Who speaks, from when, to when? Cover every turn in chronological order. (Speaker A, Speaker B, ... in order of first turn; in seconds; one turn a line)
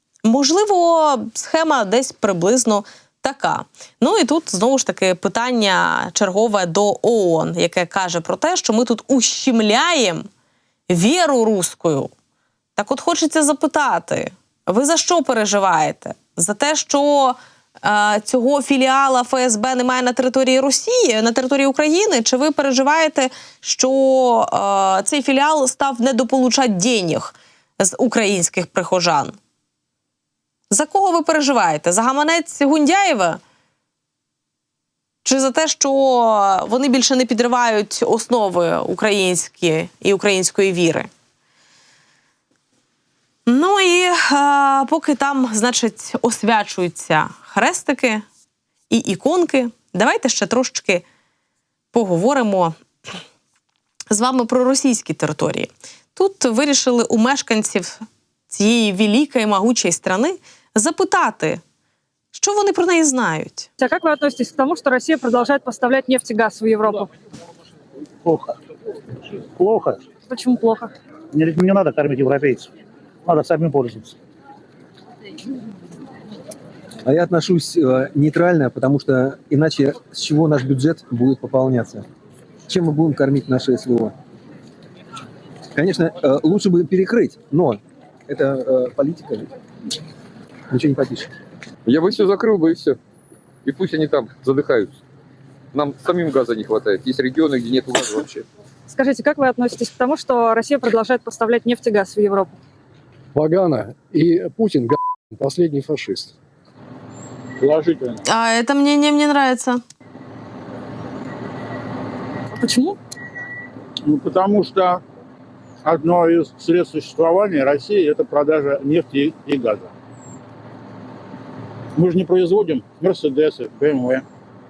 Speaker A: 0.2-10.3
Speaker A: 10.9-12.1
Speaker A: 12.8-29.4
Speaker A: 30.7-33.4
Speaker A: 35.2-41.1
Speaker A: 43.5-48.2
Speaker A: 48.9-51.0
Speaker A: 51.9-52.7
Speaker A: 54.1-61.6
Speaker A: 62.3-63.7
Speaker B: 63.8-67.1
Speaker C: 68.2-68.5
Speaker C: 69.6-70.0
Speaker B: 70.3-70.9
Speaker C: 71.3-72.7
Speaker C: 73.2-74.1
Speaker D: 77.0-82.0
Speaker D: 82.7-84.1
Speaker D: 85.7-89.5
Speaker D: 90.7-91.3
Speaker E: 91.8-93.0
Speaker E: 93.6-95.0
Speaker E: 95.7-98.4
Speaker B: 98.9-102.5
Speaker F: 103.3-106.3
Speaker G: 107.6-108.2
Speaker A: 108.2-109.8
Speaker B: 112.5-113.0
Speaker G: 114.0-115.0
Speaker G: 115.8-119.9
Speaker G: 121.9-124.2